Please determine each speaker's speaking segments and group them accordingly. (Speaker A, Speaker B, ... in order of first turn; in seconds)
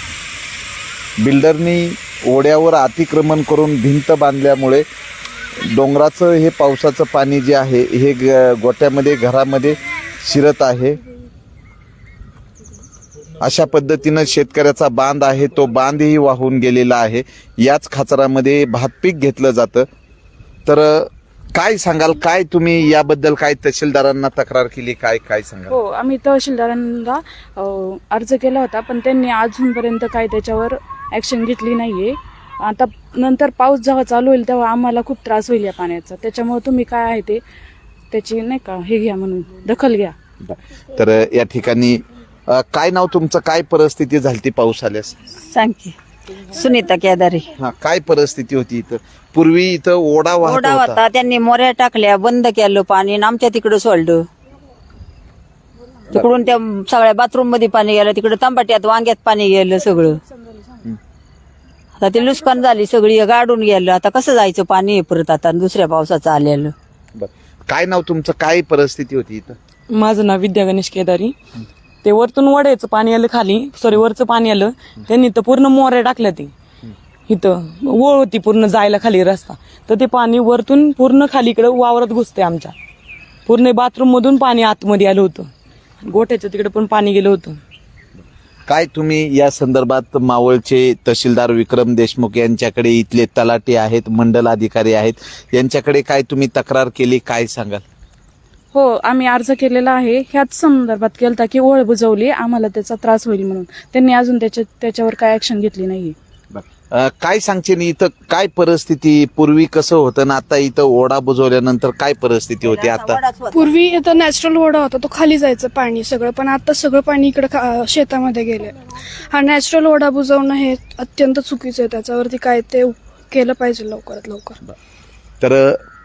Speaker A: 1.2-4.8, 5.6-11.0, 13.4-19.9, 20.7-25.8, 40.5-45.1, 47.6-51.0, 67.2-69.6, 88.7-97.8, 106.5-113.2, 125.4-125.8
Speaker B: 25.7-37.4, 38.1-40.1, 98.7-106.2
Speaker C: 45.5-47.5, 50.4-54.3, 56.1-60.2, 62.0-66.8, 112.6-114.1
Speaker D: 69.9-71.4, 72.0-76.5, 77.3-82.7, 83.5-85.5, 86.0-87.6
Speaker E: 113.5-118.8, 119.3-124.6